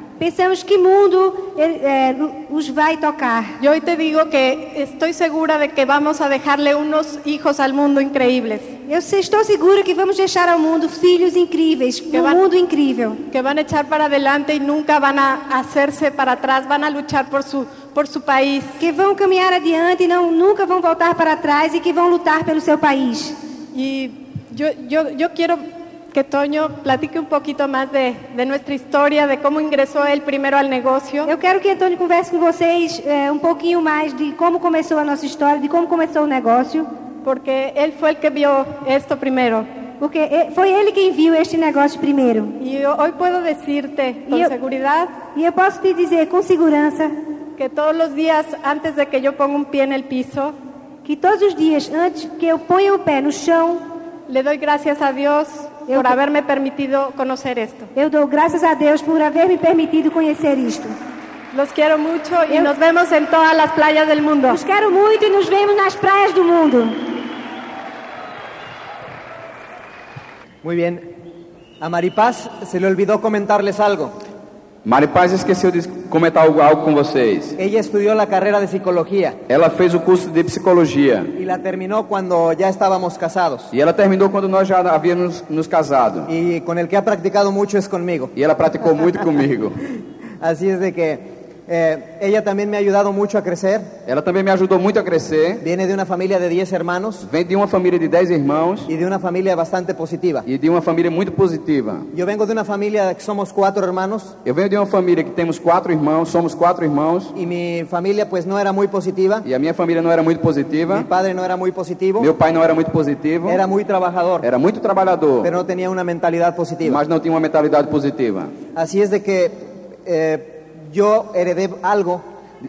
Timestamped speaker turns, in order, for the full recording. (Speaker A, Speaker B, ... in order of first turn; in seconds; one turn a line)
Speaker A: 0.2-3.6
Speaker B: 3.6-8.8
Speaker A: 8.9-13.2
Speaker B: 12.1-12.4
Speaker B: 13.3-18.8
Speaker A: 18.8-23.4
Speaker B: 23.7-31.3
Speaker A: 31.2-36.9
Speaker B: 37.2-39.7
Speaker A: 40.0-42.6
Speaker B: 42.6-45.1
Speaker A: 45.3-47.1
Speaker B: 47.6-50.5
Speaker A: 51.0-53.9
Speaker B: 54.3-57.9
Speaker A: 55.9-56.1
Speaker A: 57.9-60.9
Speaker B: 61.5-64.6
Speaker A: 64.5-67.2
Speaker C: 70.6-71.0
Speaker C: 71.8-74.1
Speaker D: 74.8-77.6
Speaker C: 77.6-79.4
Speaker D: 79.5-81.3
Speaker C: 81.4-83.7
Speaker D: 83.7-86.3
Speaker C: 86.3-88.3
Speaker D: 88.4-89.8
Speaker C: 90.4-93.9
Speaker D: 94.0-95.6
Speaker C: 95.6-97.2
Speaker D: 97.2-98.9
Speaker C: 98.9-100.5
Speaker D: 100.5-102.1
Speaker C: 102.1-104.3
Speaker D: 104.4-107.3
Speaker C: 107.3-109.5
Speaker D: 109.4-111.1
Speaker C: 110.9-112.3
Speaker D: 112.2-113.6
Speaker C: 113.4-114.5
Speaker D: 114.4-115.5
Speaker C: 115.4-117.0
Speaker D: 116.8-118.5
Speaker C: 118.8-122.2